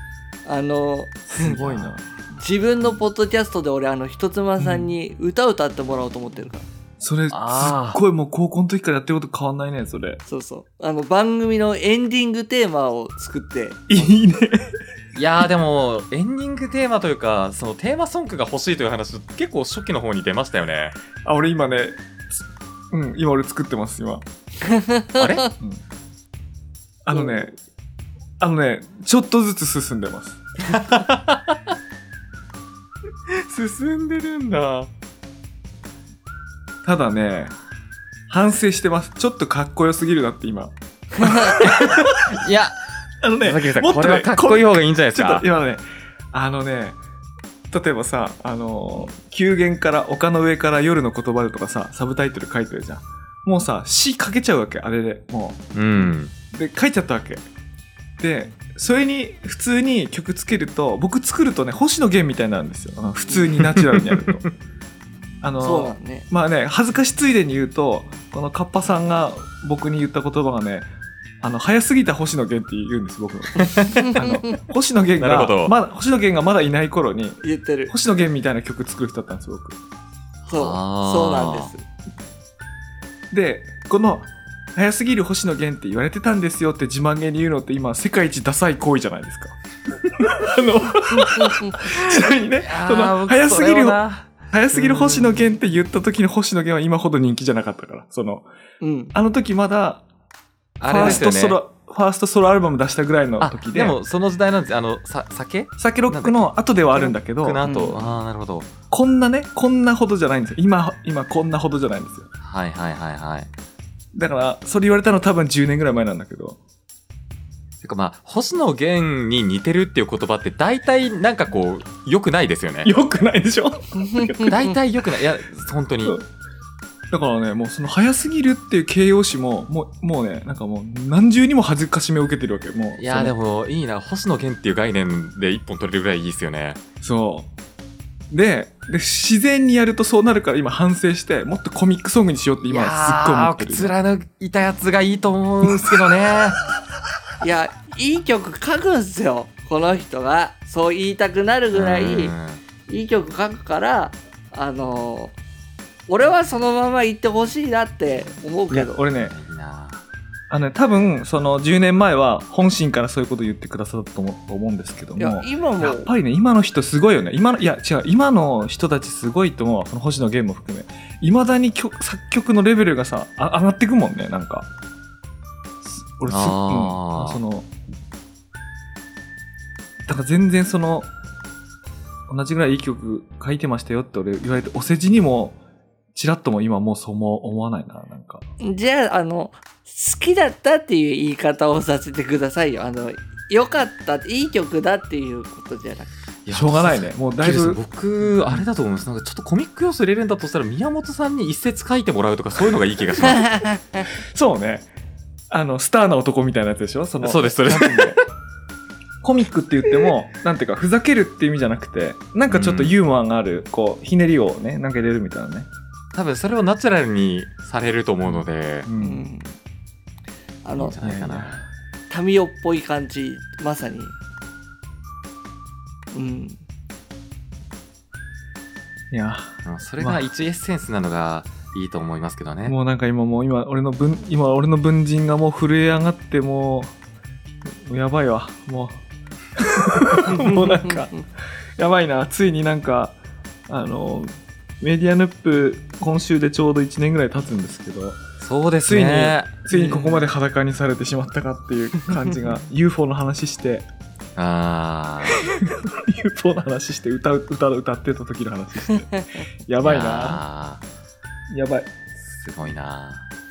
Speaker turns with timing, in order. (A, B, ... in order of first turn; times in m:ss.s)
0:00.4-0:06.7 A
0:01.3-0:02.1 B
0:04.6-0:04.9 B
0:07.0-0:10.2 B
0:07.3-0:08.0 C
0:10.2-0:14.1 A
0:13.9-0:14.7 B
0:15.1-0:21.0 C
0:21.2-0:22.0 B
0:22.9-0:24.2 B
0:24.6-0:25.5 A
0:25.2-0:25.5 C
0:27.0-0:27.5 B
0:28.4-0:30.4 B
0:30.6-0:31.6 C
0:33.3-0:34.9 C
0:36.8-0:37.5 B
0:38.3-0:42.4 B
0:41.2-0:41.6 A
0:41.5-0:42.8 C
0:43.2-0:47.0 B
0:43.4-0:45.4 C
0:47.7-0:57.4 B
0:55.7-0:56.3 C
0:58.2-1:04.4 B
1:03.7-1:04.2 C
1:05.4-1:10.9 B
1:05.6-1:06.2 A
1:11.4-1:19.8 B
1:13.6-1:14.1 C
1:14.0-1:14.6 A
1:15.2-1:15.7 C
1:17.4-1:17.9 A
1:20.5-1:21.7 C
1:20.5-1:21.8 A
1:23.3-1:38.4 B
1:31.4-1:31.7 A
1:31.8-1:35.4 C
1:38.8-1:39.1 A
1:39.1-1:40.0 B
1:40.8-1:41.6 C
1:40.8-1:44.0 B
1:41.0-1:41.2 A
1:43.4-1:46.4 C
1:45.8-1:47.7 B
1:47.0-1:48.7 C
1:47.6-1:48.0 A
1:48.9-1:52.3 B
1:52.4-1:53.5 C
1:54.1-1:56.6 B
1:57.8-2:02.9 C
2:02.8-2:04.6 B
2:03.9-2:04.7 A
2:04.4-2:06.2 C
2:07.1-2:13.3 B
2:13.0-2:16.8 C
2:17.0-2:17.5 B
2:18.3-2:23.9 B
2:22.7-2:26.6 C
2:27.4-2:32.3 A
2:31.7-2:32.6 C
2:32.9-2:35.4 A
2:36.1-2:39.0 A
2:38.7-2:39.4 B
2:39.1-2:40.0 C
2:40.5-2:54.7 B
2:45.2-2:46.1 A
2:55.8-2:57.7 B
2:56.3-2:57.4 C
3:00.1-3:01.1 B
3:02.3-3:05.6 B
3:06.1-3:08.4 B
3:08.6-3:16.1 A
3:16.4-3:23.5 C
3:16.5-3:18.6 B
3:23.2-3:24.0 A
3:24.3-3:24.9 B
3:25.5-3:28.2 B
3:27.2-3:28.2 C
3:29.2-3:35.7 B
3:32.5-3:33.0 C
3:36.1-3:38.9 C
3:38.2-3:39.2 B
3:39.0-3:39.6 A
3:40.6-3:41.0 A
3:40.8-3:41.6 B
3:40.8-3:41.6 C
3:42.1-3:44.2 A
3:46.1-3:46.6 A
3:49.1-3:50.3 B
3:49.6-3:52.8 C
3:52.6-3:56.9 B
3:57.6-3:59.0 B
3:59.6-4:01.2 B
4:00.4-4:00.9 A
4:01.8-4:03.2 B
4:03.7-4:08.2 B
4:08.4-4:09.5 C
4:08.8-4:13.8 B
4:09.7-4:10.2 A
4:14.4-4:15.4 C
4:15.4-4:20.4 B
4:19.8-4:20.8 C
4:21.5-4:21.9 B
4:22.3-4:23.3 C